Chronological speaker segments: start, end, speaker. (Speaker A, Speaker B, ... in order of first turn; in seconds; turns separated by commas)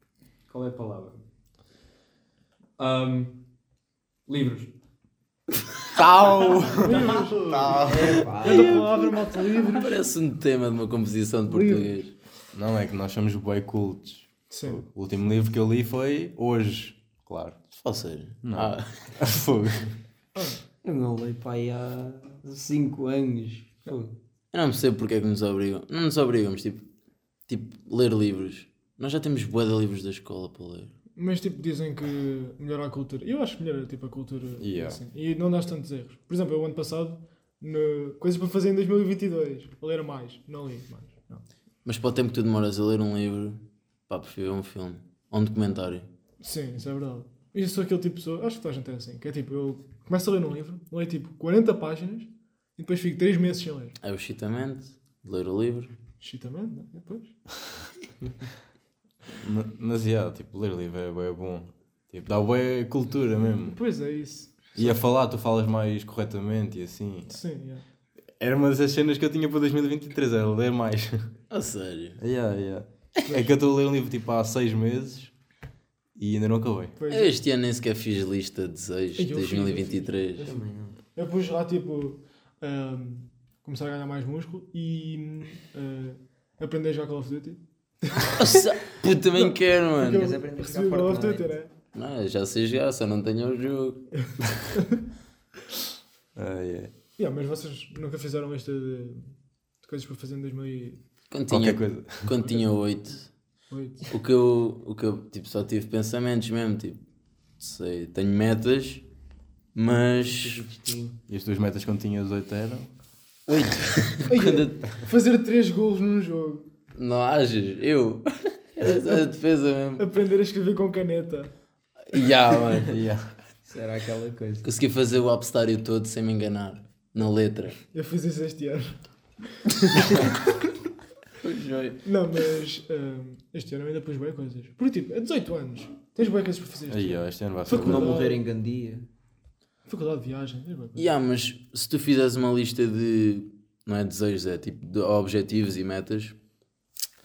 Speaker A: 0.5-1.2, Speaker A: 2.8-3.4, Speaker A: 4.3-4.7, Speaker B: 6.0-8.3, Speaker C: 6.8-10.0, Speaker D: 7.7-8.9, Speaker E: 8.4-12.1, Speaker C: 11.5-12.0, Speaker B: 12.5-17.6, Speaker C: 14.5-14.8, Speaker E: 17.8-19.1, Speaker B: 18.4-19.9, Speaker D: 20.8-24.1, Speaker E: 24.5-26.9, Speaker E: 27.5-30.9, Speaker C: 31.2-41.4, Speaker B: 34.6-35.0, Speaker E: 41.9-46.1, Speaker C: 46.4-54.0, Speaker E: 54.0-55.9, Speaker C: 56.2-57.3, Speaker B: 59.3-63.8, Speaker C: 63.7-65.0, Speaker B: 64.8-67.4, Speaker C: 67.3-67.8, Speaker B: 68.4-71.3, Speaker E: 71.5-72.2, Speaker B: 72.2-75.3, Speaker C: 73.2-73.5, Speaker B: 76.2-77.0, Speaker C: 77.0-77.3, Speaker E: 77.1-80.5, Speaker C: 79.2-80.6, Speaker D: 80.4-81.0, Speaker C: 81.2-88.5, Speaker E: 88.2-90.3, Speaker C: 89.4-91.7, Speaker D: 90.0-91.5, Speaker E: 91.9-94.0, Speaker B: 96.3-96.9, Speaker C: 97.2-101.0, Speaker E: 101.3-103.3, Speaker B: 101.5-102.3, Speaker C: 103.7-104.1, Speaker E: 104.1-107.0, Speaker E: 107.6-109.0, Speaker E: 109.8-110.7, Speaker D: 110.2-111.2, Speaker B: 111.3-112.9, Speaker E: 113.5-114.8, Speaker C: 114.3-116.7, Speaker E: 116.9-120.1, Speaker C: 120.0-121.5, Speaker E: 122.1-123.0, Speaker B: 122.9-123.3, Speaker D: 123.7-124.7, Speaker E: 124.6-127.8, Speaker C: 127.9-129.0, Speaker C: 129.7-130.3, Speaker E: 131.4-132.0, Speaker C: 132.1-138.4, Speaker B: 136.9-138.2, Speaker D: 137.7-139.1, Speaker C: 139.9-141.1, Speaker E: 141.0-146.4